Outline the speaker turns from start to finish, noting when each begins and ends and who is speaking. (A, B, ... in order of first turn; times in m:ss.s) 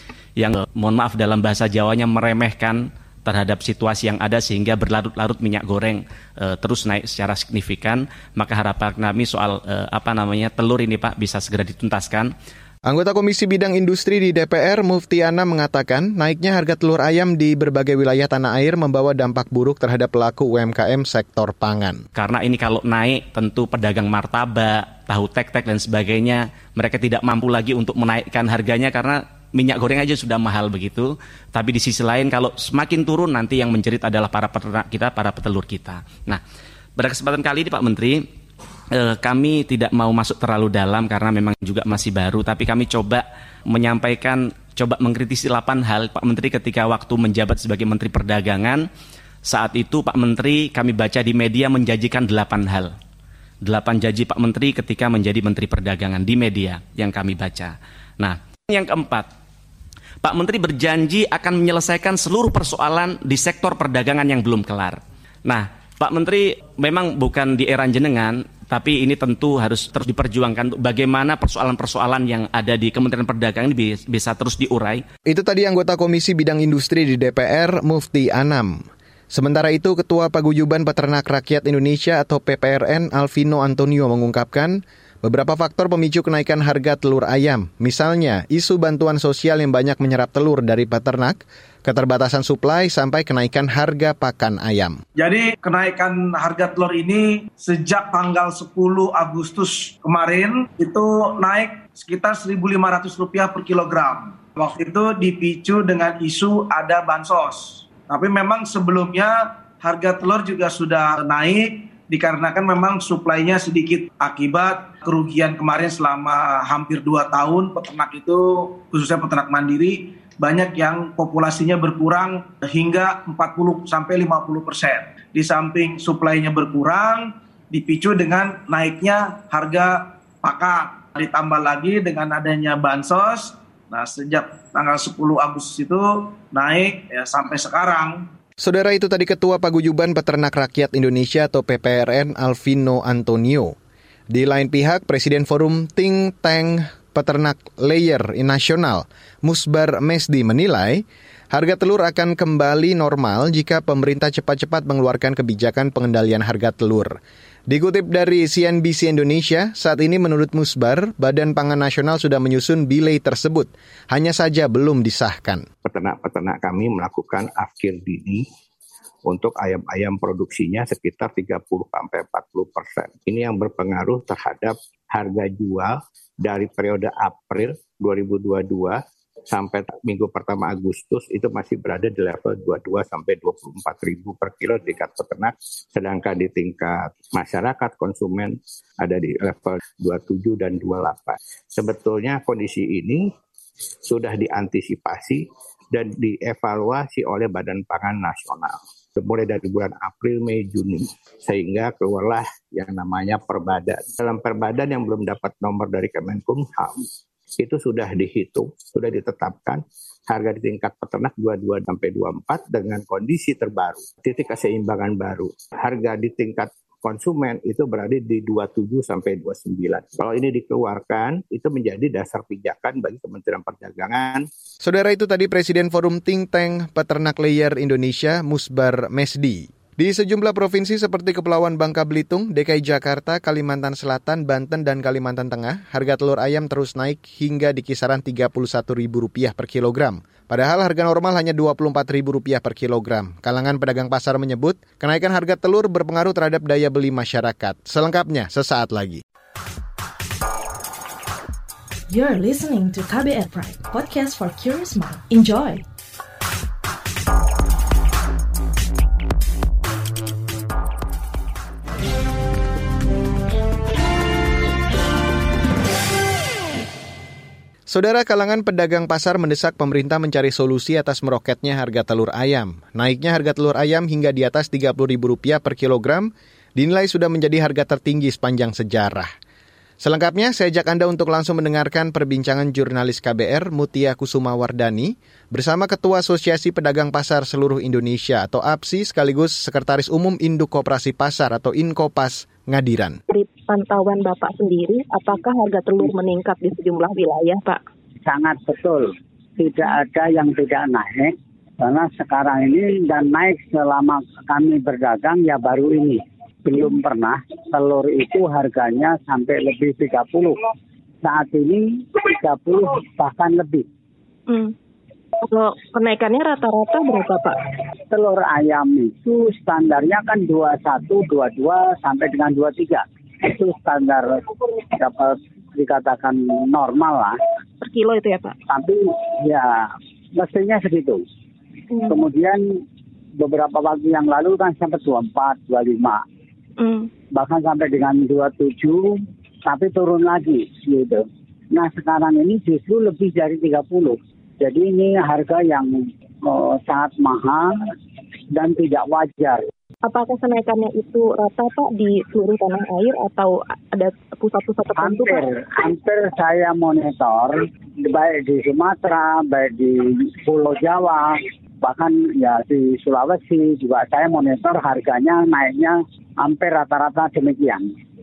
0:00.4-0:12.3 A
0:12.9-0:22.0 B
0:22.2-0:36.4 A
0:37.0-0:38.3 A
0:38.9-0:48.8 A
0:49.5-0:52.9 A
0:53.6-0:59.3 A
1:00.2-1:15.0 A
1:15.3-1:35.0 B
1:35.2-2:18.3 C
2:18.6-2:23.8 B
2:24.3-2:45.6 B
2:45.8-2:48.4 D
2:49.3-3:13.2 D
3:14.1-3:27.0 D
3:27.6-3:44.5 D
3:44.8-4:09.2 B
4:12.1-4:15.8 E
4:27.9-4:39.3 B
4:40.0-4:53.2 B
4:53.3-4:57.8 F
4:58.3-5:10.6 G
5:11.2-5:13.8 G
5:14.5-5:14.7 F
5:15.4-5:17.6 F
5:18.1-5:27.4 G
5:27.8-5:28.6 F
5:28.7-5:31.2 G
5:31.9-5:32.2 F
5:32.1-5:32.7 G
5:33.4-5:36.2 G
5:36.8-5:37.1 F
5:37.4-5:47.7 G
5:48.5-5:49.6 G
5:50.1-5:55.4 F
5:55.0-6:07.9 G